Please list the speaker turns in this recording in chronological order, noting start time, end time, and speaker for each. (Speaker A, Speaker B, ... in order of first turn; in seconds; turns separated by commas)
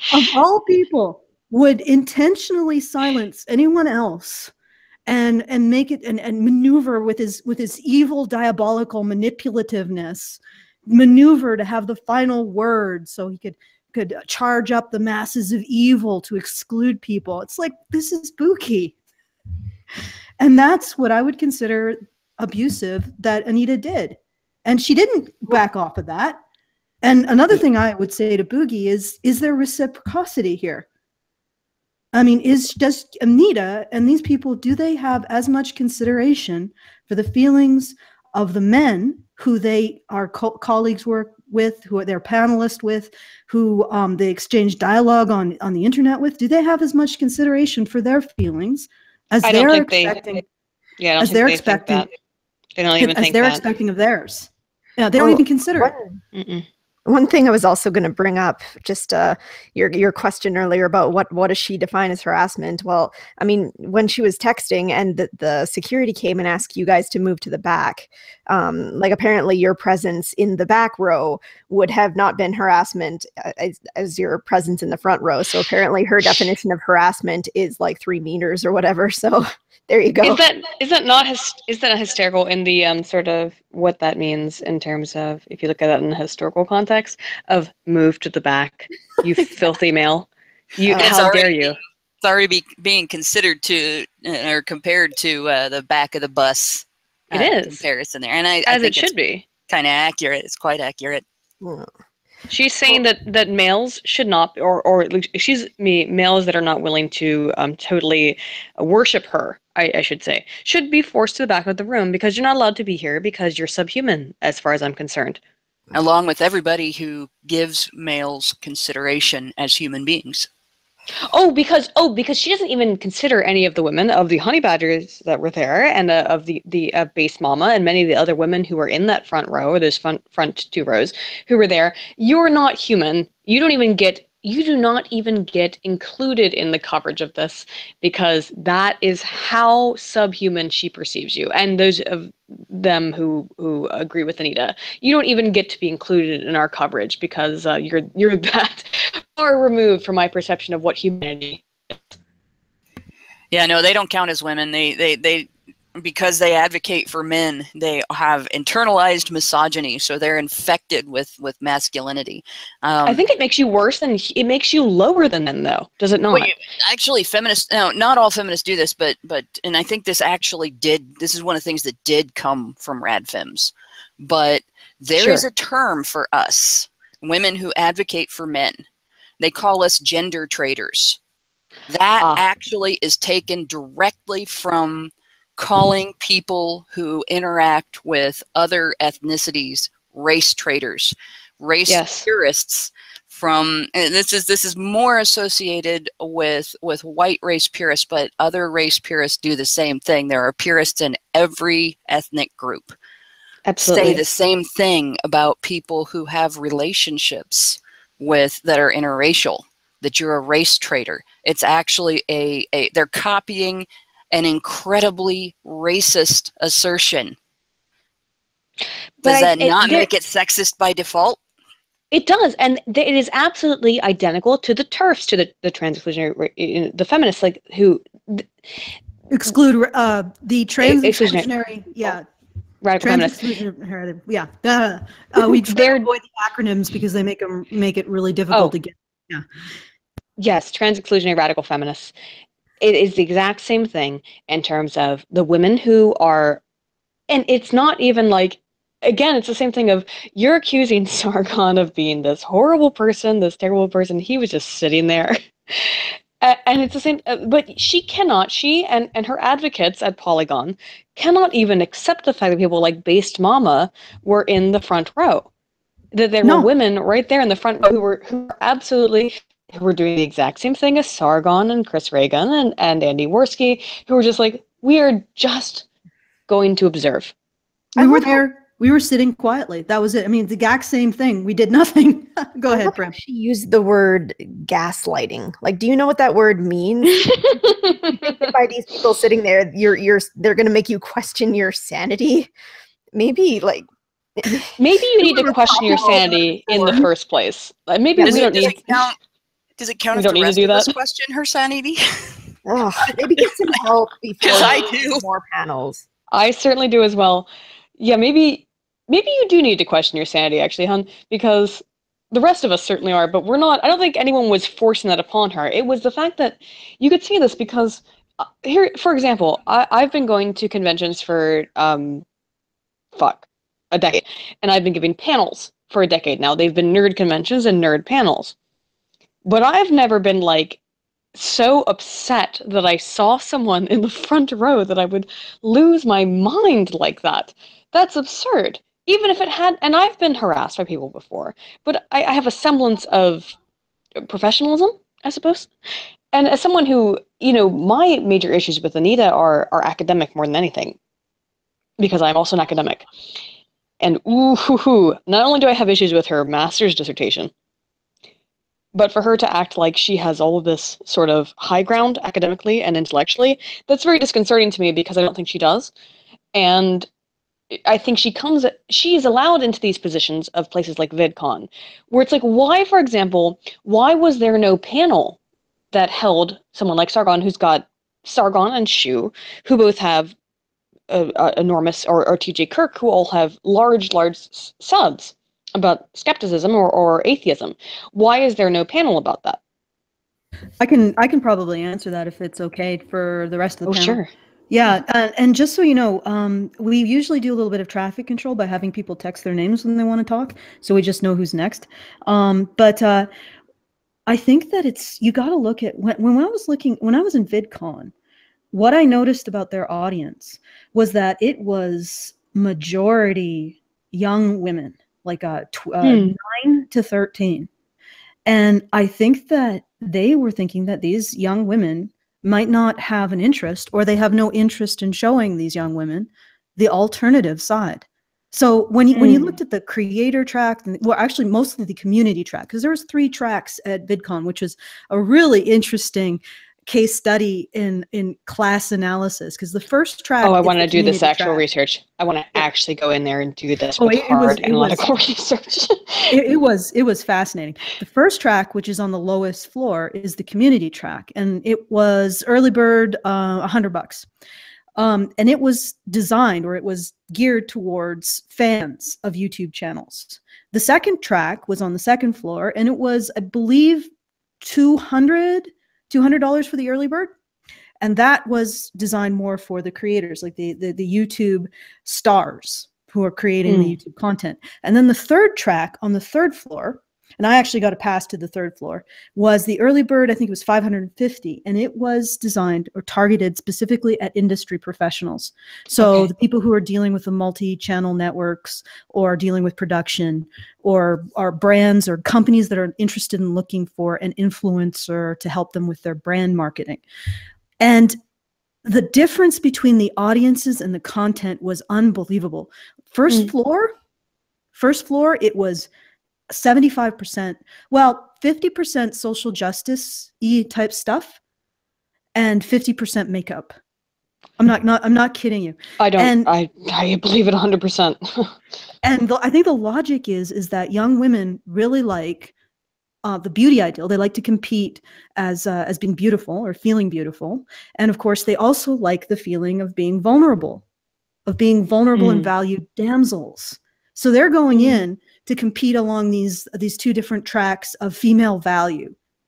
Speaker A: 0.1-4.5, Speaker A: 5.1-18.9, Speaker A: 20.4-26.4, Speaker A: 27.0-30.9, Speaker A: 32.1-50.4, Speaker B: 49.4-50.4, Speaker B: 51.0-52.1, Speaker A: 51.2-52.1, Speaker B: 52.8-53.6, Speaker A: 53.0-55.9, Speaker C: 55.2-56.2, Speaker B: 56.3-56.6, Speaker C: 57.1-80.4, Speaker B: 80.2-91.8, Speaker C: 90.9-91.1, Speaker D: 90.9-99.1, Speaker B: 97.3-97.8, Speaker B: 98.7-99.5, Speaker D: 99.7-101.2, Speaker C: 101.6-101.9, Speaker B: 102.5-115.4, Speaker D: 115.9-120.5, Speaker B: 121.2-152.0, Speaker D: 153.5-163.2, Speaker B: 163.1-166.5, Speaker D: 166.3-178.8, Speaker B: 175.2-175.4, Speaker D: 179.4-181.2, Speaker D: 181.9-202.9, Speaker B: 191.9-192.3, Speaker B: 203.7-204.2, Speaker D: 203.8-217.3, Speaker B: 219.2-220.1, Speaker D: 219.2-221.4, Speaker B: 222.1-228.5, Speaker A: 229.3-232.2, Speaker B: 230.8-231.5, Speaker B: 232.8-233.4, Speaker A: 233.0-239.4, Speaker B: 235.4-236.0, Speaker B: 240.4-242.1, Speaker B: 242.8-246.6, Speaker B: 247.3-265.5, Speaker B: 266.1-275.9, Speaker A: 266.4-266.7, Speaker B: 276.5-277.3, Speaker C: 277.9-278.4, Speaker A: 277.9-283.1, Speaker C: 282.9-292.5, Speaker B: 287.1-288.5, Speaker C: 293.1-293.8, Speaker C: 294.4-297.1, Speaker B: 294.8-298.9, Speaker C: 298.2-298.7, Speaker D: 298.2-299.2, Speaker D: 299.8-302.3, Speaker B: 300.1-300.9, Speaker C: 302.6-306.0, Speaker D: 304.4-305.2, Speaker B: 306.3-307.5, Speaker B: 308.0-318.0, Speaker B: 318.6-322.2, Speaker B: 323.1-328.5, Speaker B: 329.4-330.8, Speaker B: 331.3-343.5, Speaker B: 344.2-345.7, Speaker B: 346.3-350.9, Speaker B: 352.0-353.1, Speaker B: 354.0-357.5, Speaker B: 358.9-365.9, Speaker B: 366.5-367.1, Speaker B: 367.7-375.4, Speaker B: 375.9-380.3, Speaker B: 381.1-389.6, Speaker A: 390.8-403.3, Speaker B: 393.9-394.3, Speaker A: 404.3-408.1, Speaker A: 408.7-417.7, Speaker B: 416.0-416.3, Speaker A: 418.4-441.6, Speaker B: 429.1-429.5, Speaker B: 440.4-446.4, Speaker A: 444.0-445.1, Speaker A: 446.3-454.3, Speaker A: 455.0-464.1, Speaker A: 464.6-467.3, Speaker A: 468.0-497.0, Speaker B: 473.6-473.9, Speaker B: 486.0-486.3, Speaker A: 497.8-498.2, Speaker A: 498.8-503.9, Speaker A: 504.7-505.9, Speaker A: 506.5-511.4, Speaker A: 512.3-513.7, Speaker A: 514.6-516.5, Speaker B: 516.0-518.5, Speaker A: 519.0-522.5, Speaker A: 523.2-530.8, Speaker A: 531.5-539.1, Speaker B: 532.1-532.5, Speaker B: 534.7-535.0